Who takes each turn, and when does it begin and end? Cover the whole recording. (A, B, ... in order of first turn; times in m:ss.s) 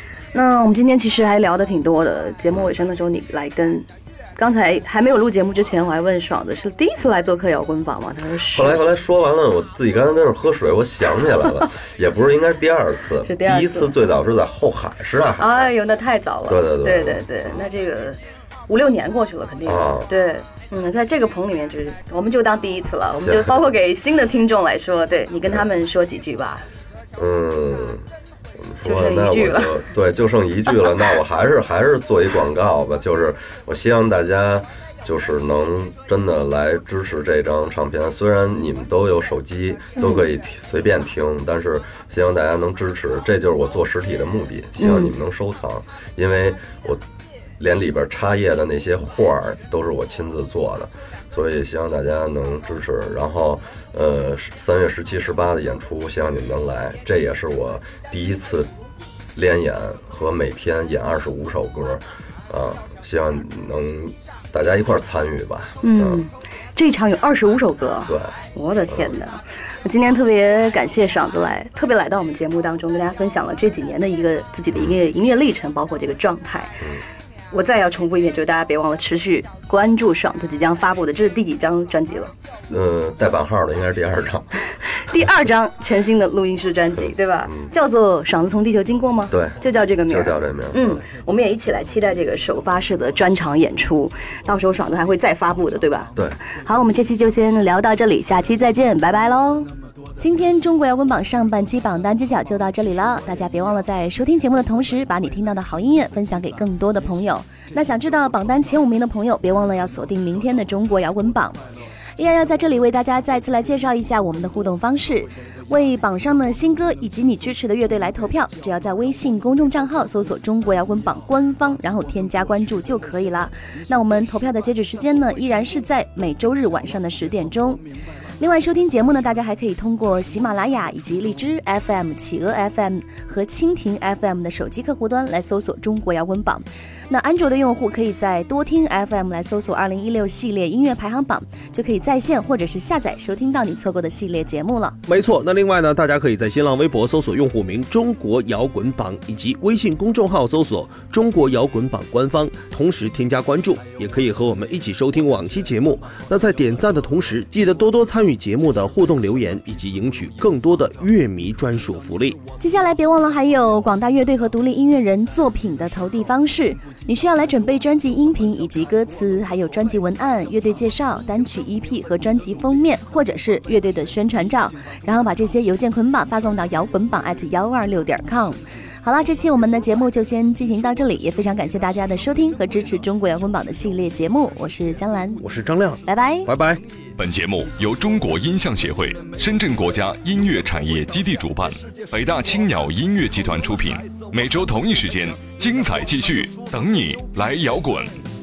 0:00.3-0:08.8 A
0:08.5-0:15.7 B
0:13.2-0:13.9 A
0:15.4-0:26.7 A
0:16.5-0:17.6 B
0:19.6-0:20.1 B
0:23.2-0:23.7 B
0:27.2-0:28.0 B
0:28.6-0:47.0 B
0:28.8-0:29.8 A
0:40.0-0:40.3 A
0:44.8-0:45.1 A
0:47.6-0:58.7 B
0:59.4-1:06.2 B
1:05.8-1:16.8 A
1:08.1-1:08.4 B
1:08.9-1:09.2 B
1:14.7-1:15.0 B
1:17.5-1:22.3 A
1:22.7-1:24.5 B
1:25.1-1:39.7 A
1:27.0-1:27.7 B
1:29.3-1:31.0 B
1:40.2-1:51.6 C
1:52.2-2:07.8 C
2:08.4-2:25.0 C
2:25.1-2:42.4 D
2:42.6-3:05.5 C
3:05.4-3:06.8 D
3:06.1-3:06.5 C
3:07.2-3:18.1 E